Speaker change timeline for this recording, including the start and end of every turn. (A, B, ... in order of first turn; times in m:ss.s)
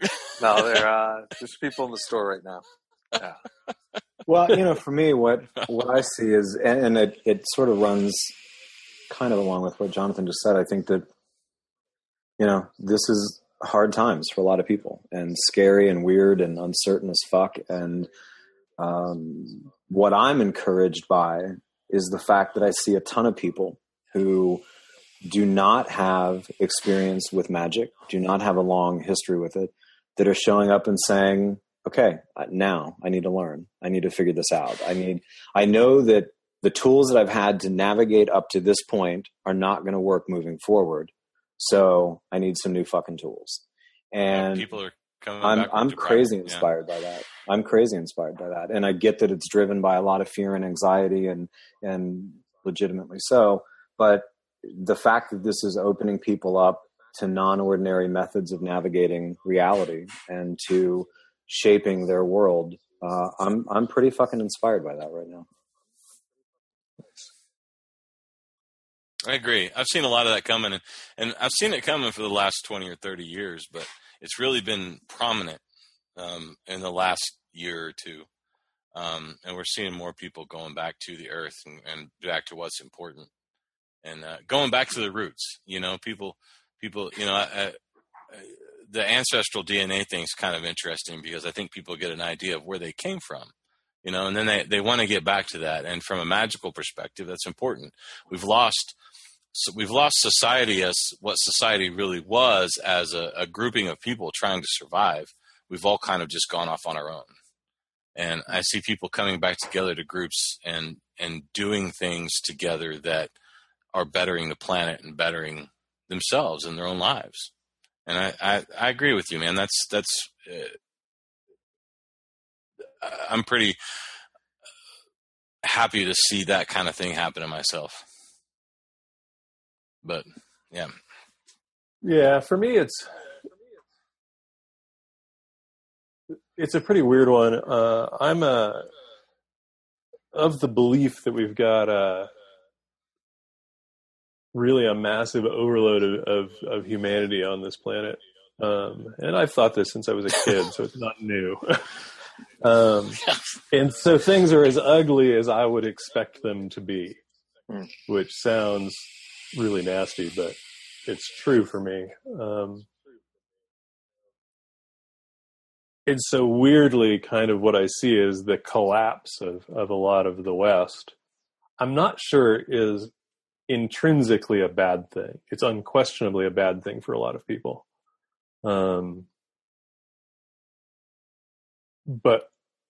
0:00.4-0:03.4 A
0:04.3-0:08.4 B
0:09.1-0:11.1 B
0:12.4-0:18.1 B
0:18.8-0:24.6 B
0:25.2-0:44.7 B
0:44.3-0:46.7 C
0:45.4-1:05.5 B
1:09.2-1:15.6 C
1:16.2-1:18.3 C
1:18.9-1:23.3 C
1:24.0-1:27.8 C
1:28.3-1:33.5 C
1:34.0-1:39.0 C
1:39.5-1:47.3 C
1:48.1-1:53.3 C
1:53.9-1:57.5 C
1:58.0-2:00.8 C
2:03.0-2:03.8 C
2:05.6-2:08.0 C
2:10.0-2:10.9 C
2:12.0-2:13.2 D
2:16.6-2:18.9 D
2:20.3-2:22.3 D
2:24.5-2:32.0 D
2:32.6-2:37.2 D
2:33.3-2:33.6 C
2:38.0-2:42.9 D
2:46.0-2:51.1 D
2:51.8-2:53.1 D
2:53.7-2:57.8 D
2:58.6-2:59.3 D
3:02.1-3:02.5 D